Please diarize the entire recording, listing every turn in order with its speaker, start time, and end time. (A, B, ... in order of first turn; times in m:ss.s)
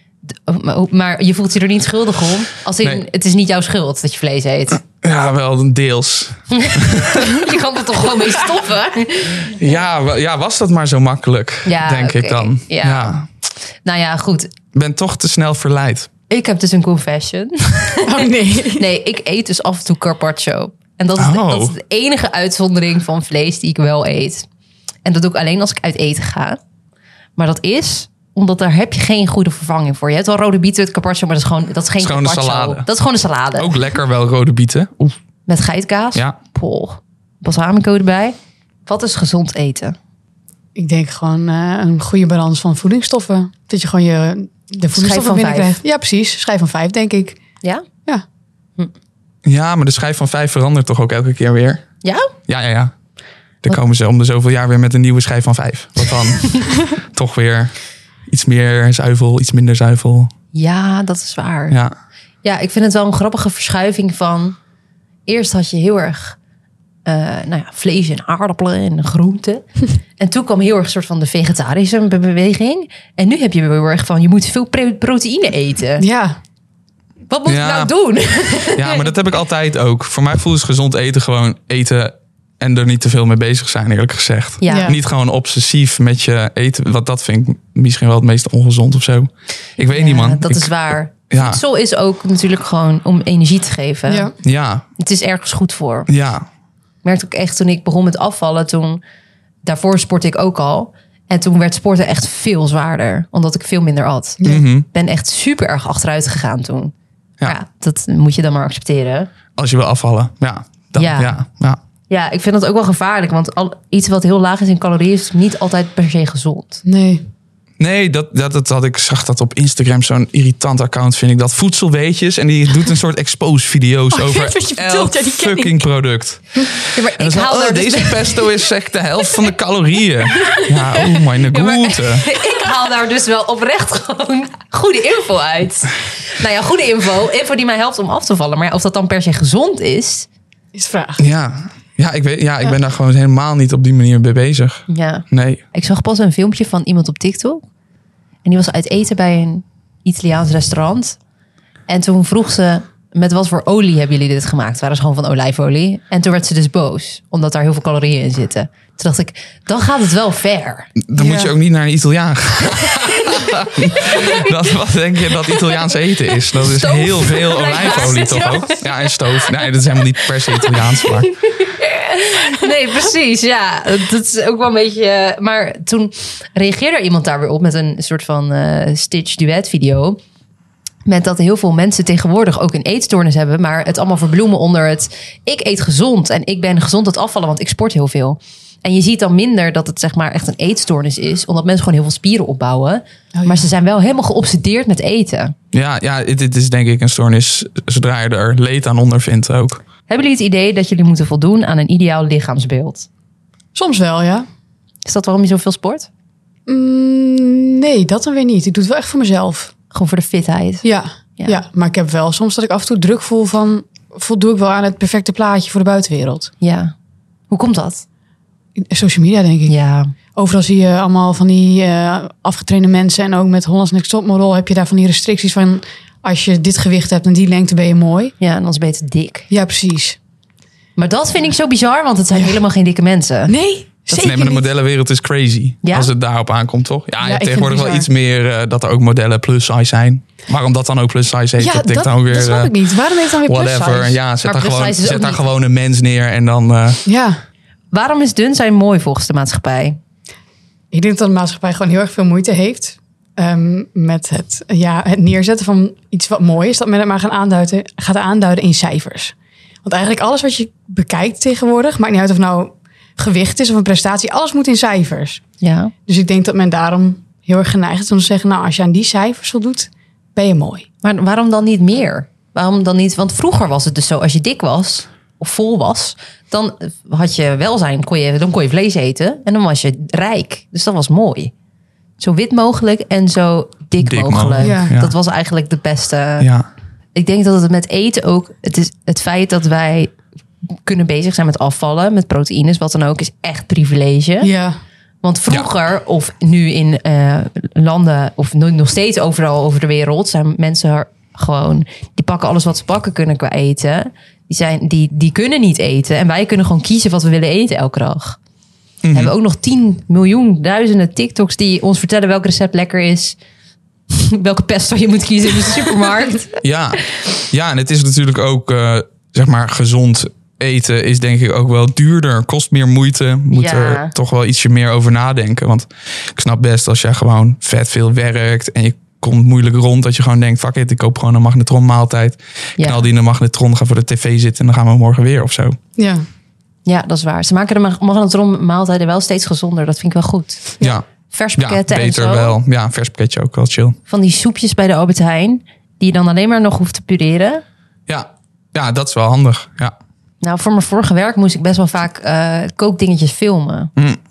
0:00.3-0:04.8 A
0:04.8-0:07.5 B
0:06.5-0:09.6 A
0:09.5-0:13.2 B
0:11.6-0:13.2 A
0:13.8-0:14.5 A
0:14.7-0:16.1 B
0:16.3-0:24.4 A
0:18.0-0:18.8 C
0:21.2-0:21.7 B
0:25.0-0:26.6 A
0:27.4-0:33.8 A
0:32.0-0:32.9 B
0:33.6-0:35.1 B
0:35.5-0:40.0 A
0:40.8-0:47.4 C
0:44.9-0:45.8 A
0:49.4-0:51.8 B
0:52.0-0:52.3 A
0:52.5-0:52.9 B
0:53.6-0:57.7 B
0:58.3-1:00.3 B
1:00.5-1:01.8 A
1:01.7-1:01.9 B
1:02.4-1:04.6 A
1:05.3-1:06.4 A
1:07.0-1:09.6 A
1:10.2-1:16.0 A
1:16.0-1:16.4 C
1:17.3-1:19.1 A
1:17.5-1:17.9 B
1:18.7-1:31.6 B
1:24.6-1:24.9 A
1:24.7-1:25.0 C
1:29.9-1:34.3 A
1:34.1-1:34.3 C
1:34.4-1:34.8 B
1:35.0-1:36.1 A
1:36.1-1:36.4 B
1:37.0-1:39.0 A
1:39.6-1:49.3 A
1:44.4-1:44.8 B
1:49.6-1:51.8 B
1:51.0-1:51.4 A
1:52.1-1:56.8 A
1:56.8-1:57.2 C
1:57.8-2:12.2 B
2:04.1-2:05.8 C
2:06.9-2:08.5 A
2:11.5-2:20.3 A
2:20.7-2:21.2 C
2:21.2-2:25.6 B
2:24.9-2:27.6 A
2:28.4-2:31.2 A
2:31.9-2:40.9 A
2:41.0-2:51.3 B
2:41.2-2:41.5 C
2:43.2-2:44.5 A
2:46.6-2:48.8 A
2:50.9-3:00.2 A
3:01.0-3:15.5 A
3:13.3-3:13.6 C
3:15.7-3:19.8 B
3:20.1-3:23.1 A
3:23.7-3:24.5 C
3:25.0-3:26.1 A
3:26.7-3:29.7 C
3:29.9-3:30.8 A
3:30.8-3:36.5 C
3:36.6-3:36.9 A
3:37.5-3:38.0 A
3:38.8-3:39.7 C
3:39.7-3:40.1 A
3:40.3-3:48.3 C
3:48.4-3:49.5 A
3:49.5-3:50.2 C
3:51.0-3:53.5 A
3:53.5-3:54.6 C
3:54.1-4:02.7 B
3:55.8-3:56.1 A
3:57.2-3:58.1 C
4:01.6-4:04.2 C
4:03.4-4:07.0 B
4:04.4-4:05.4 A
4:07.0-4:07.4 C
4:07.9-4:10.0 A
4:10.9-4:25.4 C
4:25.6-4:25.9 A
4:26.1-4:30.8 C
4:31.0-4:41.5 A
4:42.2-4:46.5 A
4:44.0-4:45.1 B
4:44.6-4:44.9 C
4:46.4-4:46.6 B
4:47.1-4:50.2 A
4:50.7-4:54.5 A
4:54.4-4:54.8 C
4:55.2-5:08.4 A
5:09.0-5:09.3 B
5:09.1-5:13.4 A
5:14.1-5:16.5 A
5:16.6-5:35.8 B
5:23.5-5:24.1 A
5:32.8-5:33.0 A
5:36.0-5:36.2 C
5:36.8-5:40.7 A
5:41.3-5:42.5 A
5:41.6-5:44.0 B
5:44.1-5:47.6 A
5:48.1-5:49.9 B
5:50.4-5:53.9 A